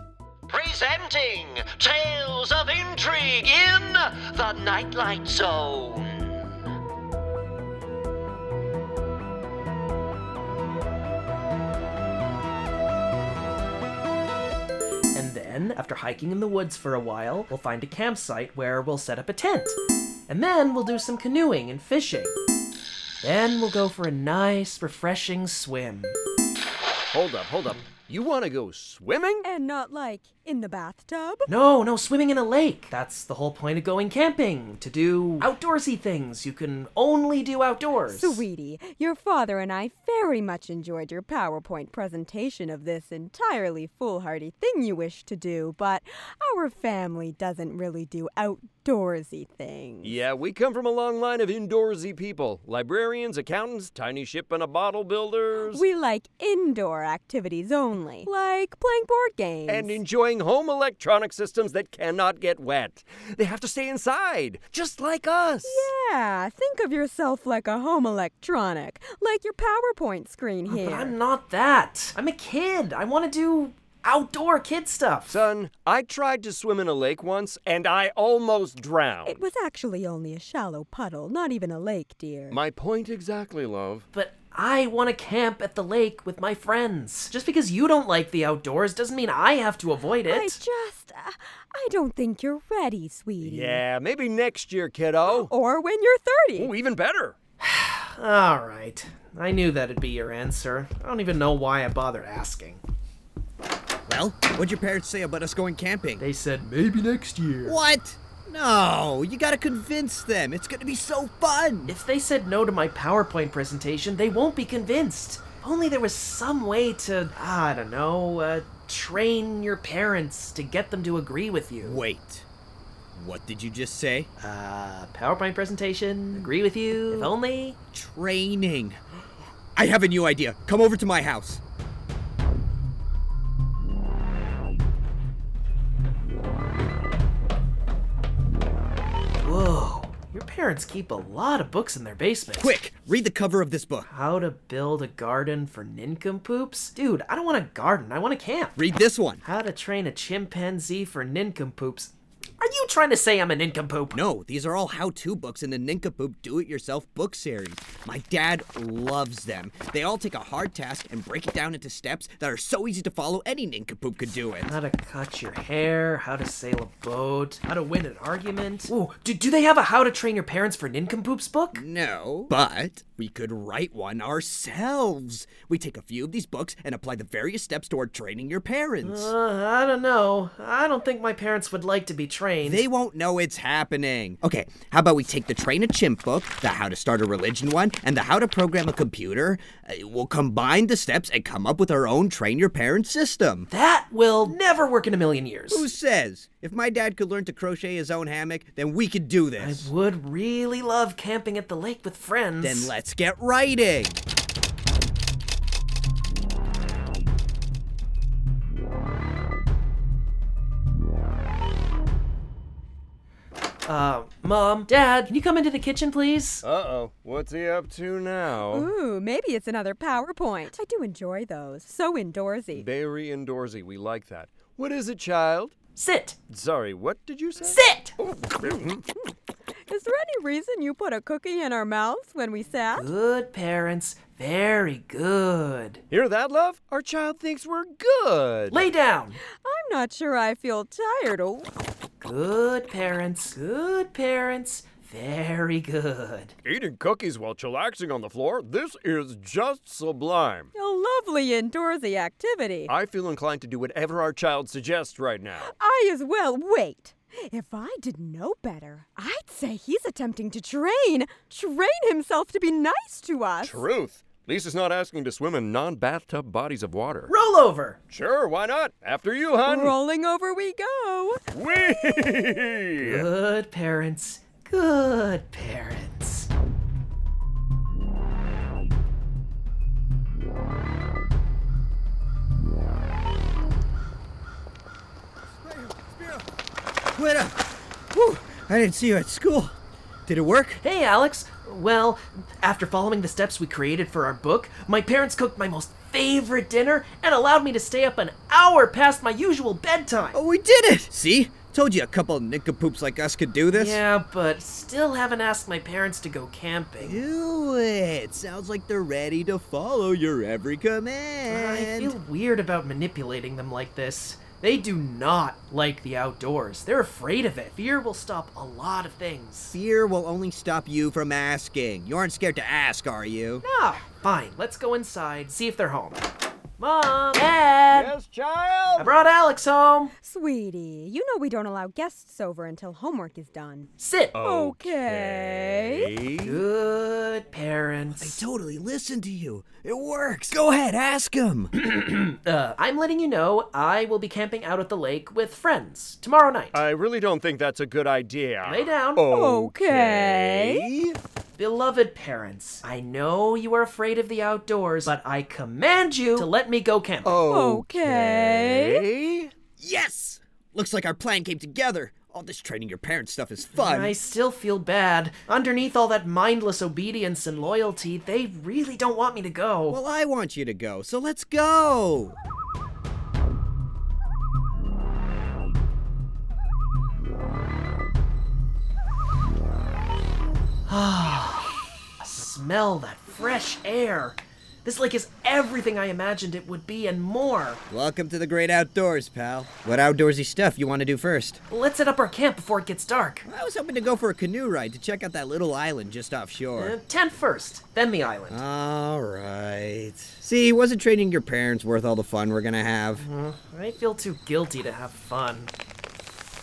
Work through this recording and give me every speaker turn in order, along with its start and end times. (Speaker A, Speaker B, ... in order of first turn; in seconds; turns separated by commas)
Speaker A: 0.5-6.4, Speaker B: 15.1-22.4, Speaker B: 23.2-26.2, Speaker C: 27.1-29.4, Speaker D: 29.4-31.5, Speaker B: 31.5-38.5, Speaker D: 38.1-50.2, Speaker C: 50.0-55.8, Speaker D: 55.7-60.0, Speaker C: 59.7-65.9, Speaker D: 65.7-71.2, Speaker B: 70.7-75.4, Speaker C: 75.3-79.4, Speaker D: 79.3-82.6, Speaker C: 82.5-84.0, Speaker B: 84.1-90.6, Speaker D: 90.3-93.8, Speaker C: 93.4-95.5, Speaker D: 95.3-96.7, Speaker C: 96.6-97.4, Speaker B: 97.6-102.8, Speaker E: 104.1-106.2, Speaker B: 106.2-107.8, Speaker E: 107.7-112.0, Speaker B: 111.9-122.0, Speaker E: 121.8-122.5, Speaker E: 123.1-124.3, Speaker B: 124.4-127.8, Speaker E: 127.9-129.0, Speaker E: 129.8-131.6, Speaker B: 139.4-142.8, Speaker E: 142.6-144.1, Speaker B: 144.1-148.8, Speaker E: 148.8-149.4, Speaker B: 149.4-154.2, Speaker E: 154.1-164.7, Speaker B: 164.7-171.8, Speaker E: 171.8-179.3, Speaker B: 179.0-182.8, Speaker E: 182.6-193.7, Speaker B: 193.7-195.9, Speaker E: 195.7-199.9, Speaker B: 199.6-202.9, Speaker E: 202.6-204.2, Speaker B: 213.8-216.6, Speaker C: 216.6-218.9, Speaker D: 218.7-222.9, Speaker C: 222.7-225.8, Speaker B: 225.9-226.4, Speaker C: 226.5-229.0, Speaker B: 227.6-228.1, Speaker D: 229.9-233.1, Speaker B: 232.9-236.0, Speaker C: 236.1-238.9, Speaker B: 238.7-239.4, Speaker D: 239.5-241.7, Speaker B: 242.2-246.6, Speaker C: 246.7-250.7, Speaker D: 250.7-252.9, Speaker C: 252.9-255.7, Speaker D: 255.6-263.8, Speaker C: 263.6-267.3, Speaker B: 267.3-268.0, Speaker C: 268.1-270.0, Speaker D: 269.6-271.4, Speaker C: 271.5-273.3, Speaker B: 273.0-276.5, Speaker E: 285.6-286.5, Speaker E: 287.1-289.7, Speaker E: 290.3-290.8, Speaker B: 290.8-300.4, Speaker E: 300.3-304.0, Speaker B: 303.7-307.2, Speaker E: 307.0-312.2, Speaker B: 311.5-319.8, Speaker E: 319.7-323.6, Speaker B: 323.6-326.3, Speaker B: 326.8-328.1, Speaker C: 327.9-329.2, Speaker B: 329.0-330.1, Speaker D: 330.2-336.1, Speaker B: 334.0-334.4, Speaker C: 334.3-336.6, Speaker B: 336.4-338.4, Speaker E: 338.2-341.7, Speaker B: 341.8-346.8, Speaker C: 346.7-351.2, Speaker B: 348.6-349.2, Speaker D: 349.3-350.9, Speaker B: 351.6-357.4, Speaker C: 357.2-359.5, Speaker D: 357.5-359.0, Speaker E: 359.8-364.2, Speaker B: 363.8-370.0, Speaker E: 369.9-372.4, Speaker B: 380.9-387.8, Speaker E: 387.9-391.6, Speaker B: 391.7-393.5, Speaker E: 393.4-396.9, Speaker B: 396.8-398.6, Speaker E: 398.5-403.2, Speaker B: 403.2-405.7